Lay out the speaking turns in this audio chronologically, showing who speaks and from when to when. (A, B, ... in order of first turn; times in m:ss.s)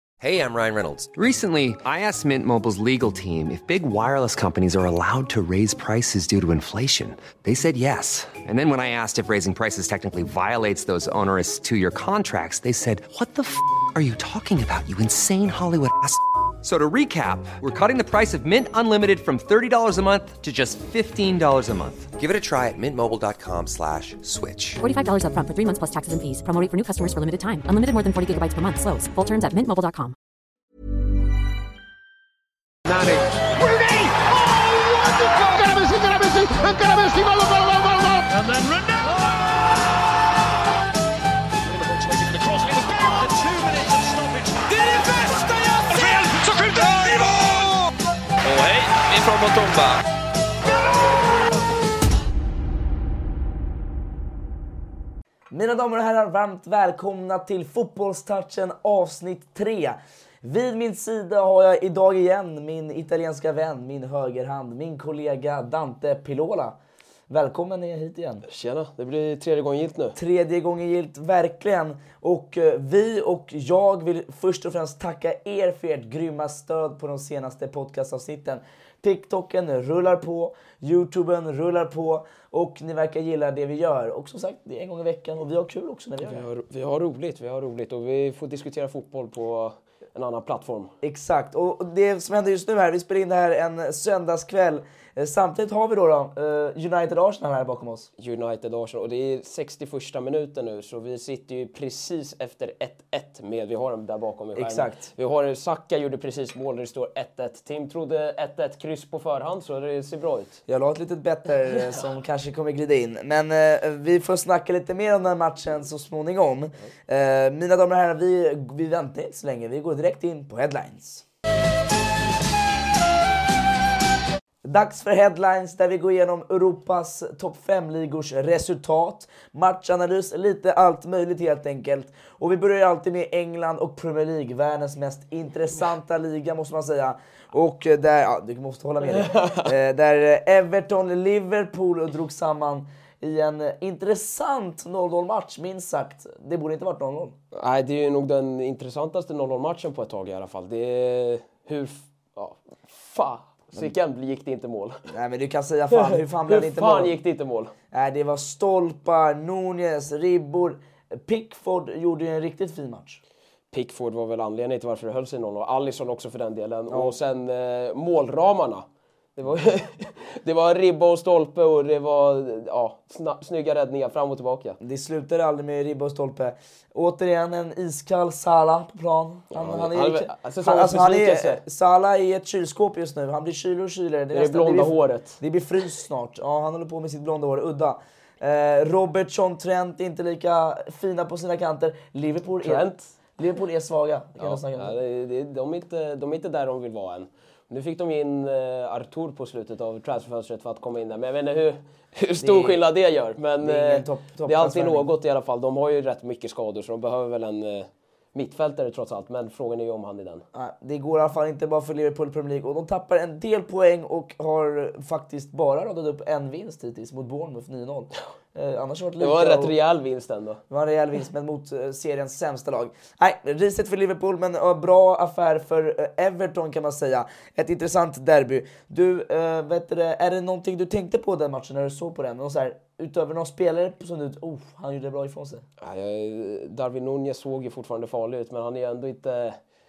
0:00.2-0:01.2 A
0:01.1-0:21.0 B
0:16.9-0:19.0 A
0:19.7-0:24.8 A
0:24.8-0:30.1 C
0:32.9-0:34.3 D
0:35.2-0:39.1 D
0:41.8-0:47.6 D
0:44.7-0:47.6 E
0:48.4-0:50.0 E
0:55.5-1:06.8 F
1:07.3-1:08.4 F
1:08.4-1:10.2 E
1:10.2-1:26.4 F
1:26.2-1:30.9 E
1:31.0-1:38.1 F
1:38.2-1:50.6 E
1:44.5-1:45.1 F
1:50.7-2:01.2 F
2:04.6-2:27.4 F
2:19.1-2:19.7 E
2:27.5-2:35.0 E
2:35.1-2:37.1 F
2:35.9-2:37.7 E
2:37.9-2:43.2 F
2:43.7-2:48.8 E
2:46.9-2:47.2 F
2:49.4-2:54.8 E
2:54.8-3:15.0 F
2:59.5-3:01.6 E
3:04.3-3:05.4 E
3:12.6-3:13.1 E
3:14.4-3:30.4 E
3:22.4-3:22.8 F
3:23.6-3:25.1 F
3:30.5-3:39.8 F
3:39.2-3:40.6 E
3:40.7-3:55.6 F
3:55.8-3:59.6 E